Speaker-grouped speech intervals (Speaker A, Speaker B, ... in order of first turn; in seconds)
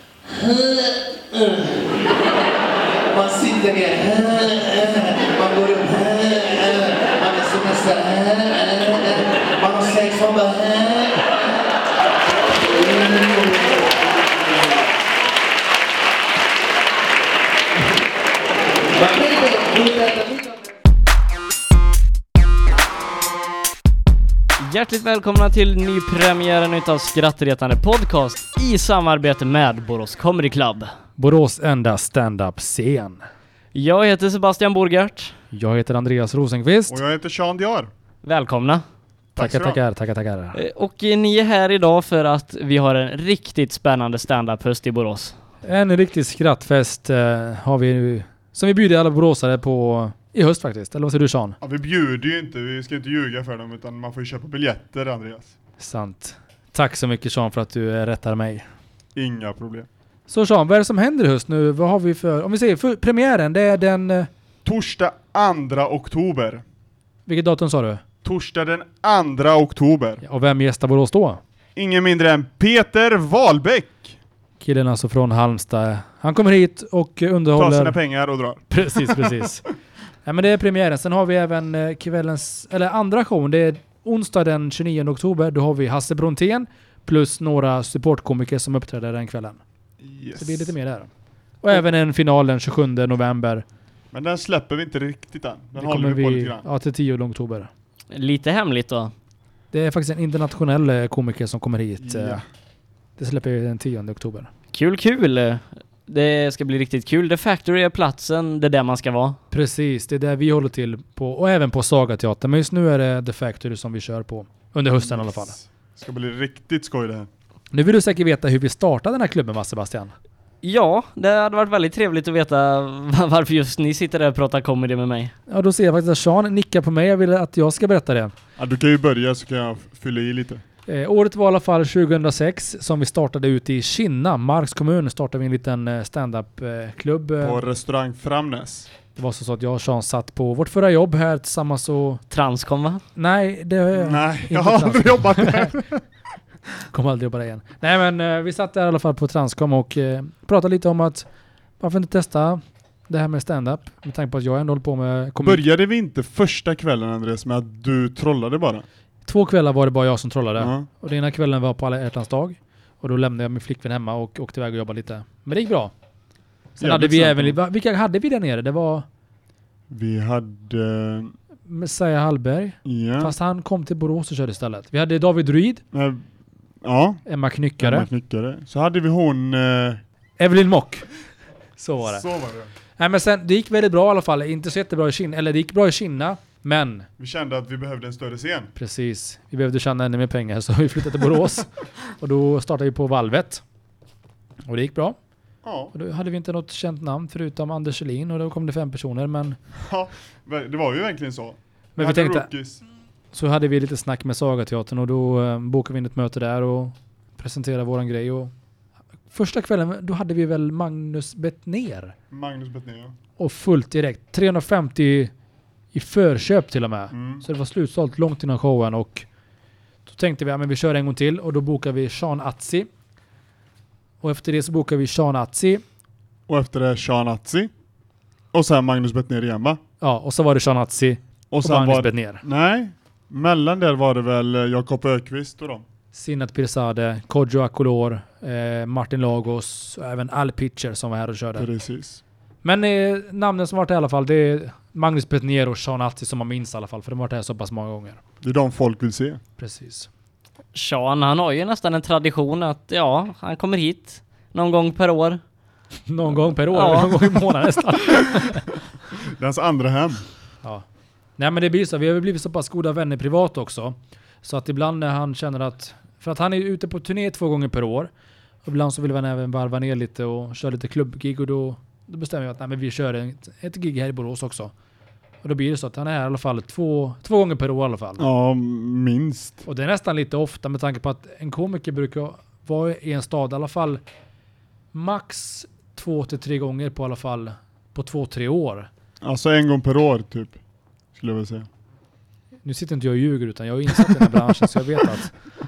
Speaker A: 0.2-2.1, 2.9-11.3, 12.5-13.9, 18.9-20.6
Speaker B: 24.6-30.9, 33.7-35.3, 38.2-38.8, 40.5-45.3, 98.1-99.1, 104.7-109.4, 120.6-125.3, 142.3-143.0, 250.7-255.4, 256.7-257.5
Speaker C: 31.2-33.2, 35.5-37.0, 39.4-40.6, 45.6-51.6, 55.8-58.7, 60.3-64.3, 67.2-68.0, 70.2-71.4, 74.6-78.0, 78.7-79.6, 80.2-89.6, 90.4-91.1, 91.6-93.6, 95.8-97.7, 99.7-102.4, 103.2-104.5, 109.5-115.5, 117.7-120.1, 125.5-128.3, 130.9-137.6, 139.1-142.2, 143.2-145.8, 146.8-151.2, 151.8-155.6, 159.2-165.9, 166.8-169.1, 171.7-175.8, 177.2-178.1, 180.4-181.1, 181.8-182.2, 183.0-187.1, 188.7-193.6, 194.7-195.2, 195.9-199.6, 202.0-202.5, 203.3-208.5, 209.3-212.1, 213.4-215.3, 215.9-219.3, 220.1-222.9, 224.2-225.8, 230.0-232.4, 236.1-241.7, 242.6-248.2, 249.6-250.1, 256.1-258.6, 261.4-268.1, 268.6-274.7, 275.4-278.3, 279.6-284.0, 284.9-288.9, 292.6-295.3
Speaker D: 36.9-37.9, 39.4-39.8, 51.6-55.5, 59.1-59.9, 64.6-66.6, 68.2-70.2, 71.8-74.2, 77.5-79.4, 90.0-90.7, 94.1-96.7, 102.0-102.4, 115.0-117.3, 128.6-130.6, 137.4-138.9, 143.9-146.0, 155.4-158.8, 160.6-160.9, 166.8-167.6, 169.9-171.3, 172.8-173.3, 175.9-176.2, 176.8-177.2, 177.8-180.0, 182.0-182.7, 187.2-188.7, 195.6-195.9, 199.8-202.8, 212.3-213.1, 217.1-217.4, 226.5-227.7, 228.5-229.8, 231.5-235.8, 241.6-242.2, 248.4-249.4, 259.2-260.2, 278.2-279.6, 289.2-290.6, 291.1-291.7